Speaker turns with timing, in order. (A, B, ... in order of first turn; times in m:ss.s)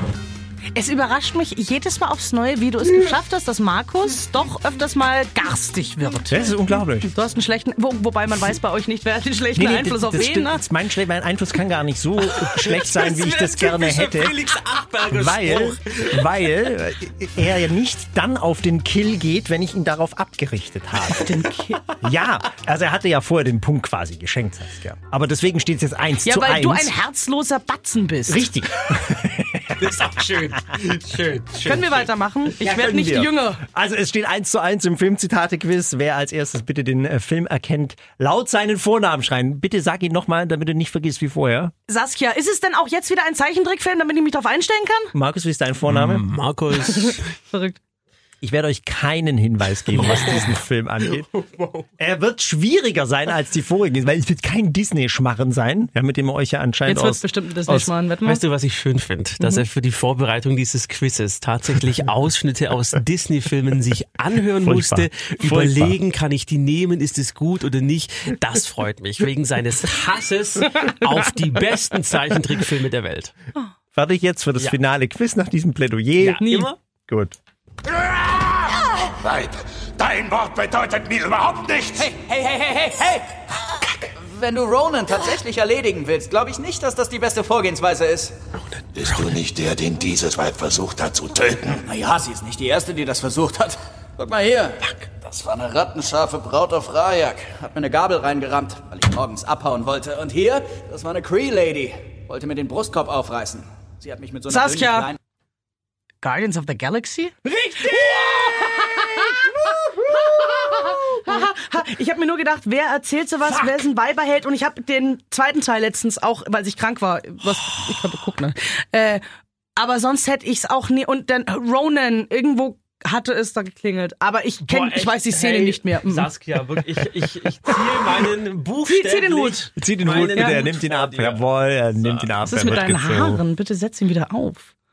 0:00.7-0:10.6 A
0:06.3-0:07.1 B
0:09.5-0:14.4 B
0:12.3-0:16.2 C
0:15.0-0:21.4 B
0:21.1-0:21.8 A
0:22.0-0:26.9 B
0:26.2-0:28.5 A
0:28.3-0:30.6 B
0:29.8-0:32.1 C
0:31.6-0:33.6 A
0:32.6-0:41.7 B
0:41.9-0:45.1 A
0:45.1-0:46.2 B
0:45.9-0:47.2 C
0:46.9-0:47.8 A
0:48.4-0:51.3 B
0:49.9-0:50.6 C
0:51.1-0:51.9 C
0:52.0-0:57.9 B
0:56.8-0:58.4 A
0:58.2-1:13.3 C
1:04.6-1:06.0 B
1:13.9-1:17.4 B
1:16.2-1:16.8 C
1:20.0-1:21.8 D
1:20.1-1:20.4 E
1:21.8-1:23.4 E
1:24.2-1:28.4 E
1:28.8-1:29.4 C
1:29.4-1:30.8 D
1:30.2-1:45.2 E
1:44.5-1:45.1 A
1:46.2-1:59.2 A
1:47.4-1:51.4 B
1:59.8-2:06.3 A
2:04.7-2:11.5 C
2:08.8-2:09.7 A
2:09.7-2:13.4 B
2:10.3-2:10.6 A
2:12.0-2:12.6 C
2:12.4-2:14.7 A